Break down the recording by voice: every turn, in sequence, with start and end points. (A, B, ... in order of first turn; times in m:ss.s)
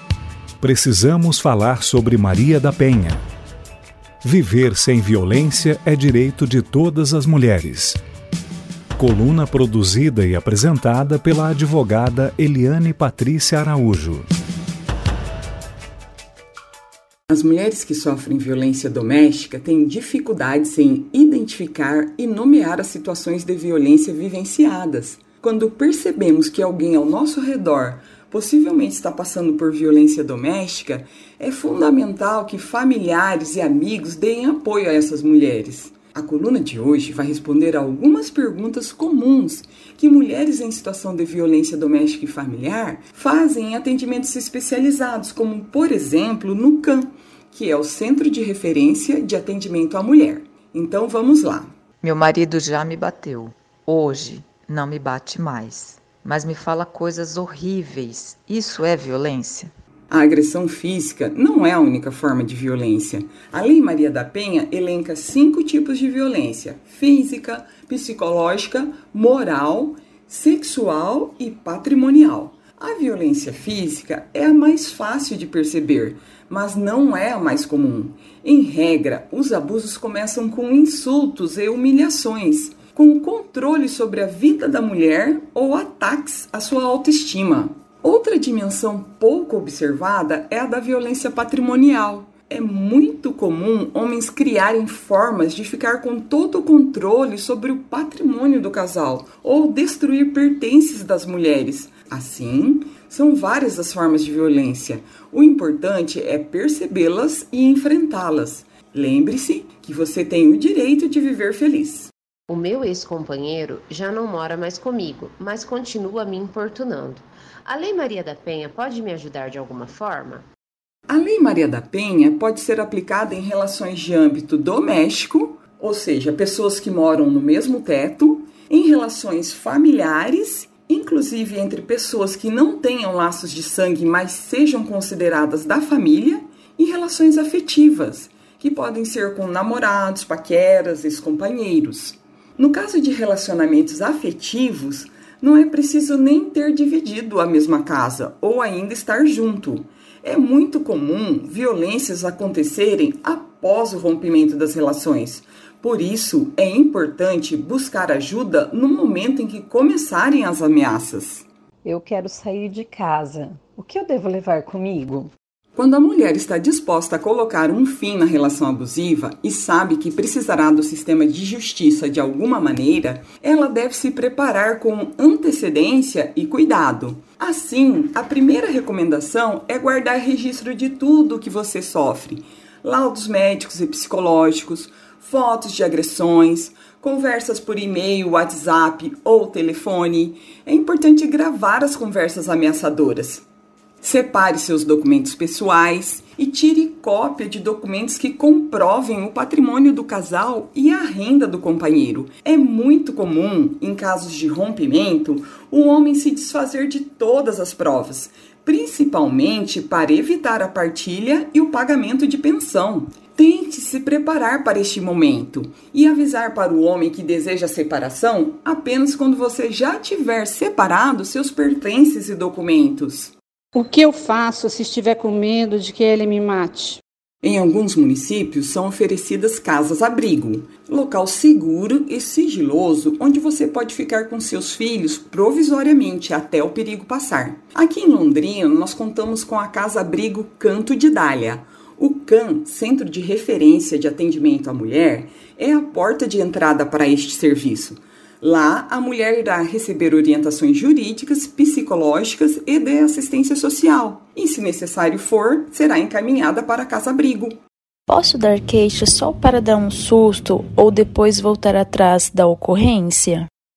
0:00.6-0:03.2 A
0:04.2-0:08.0 A
0:09.0-0:14.3 A
0:17.3-0:51.7 B
0:52.0-0:59.7 C
1:00.1-1:52.1 B
1:52.5-2:00.4 D
2:01.1-2:41.4 B
2:41.8-2:45.3 E
2:45.8-3:13.4 B
3:14.0-3:43.3 B
3:43.7-3:47.0 F
3:47.4-4:17.6 B
4:18.1-4:23.5 G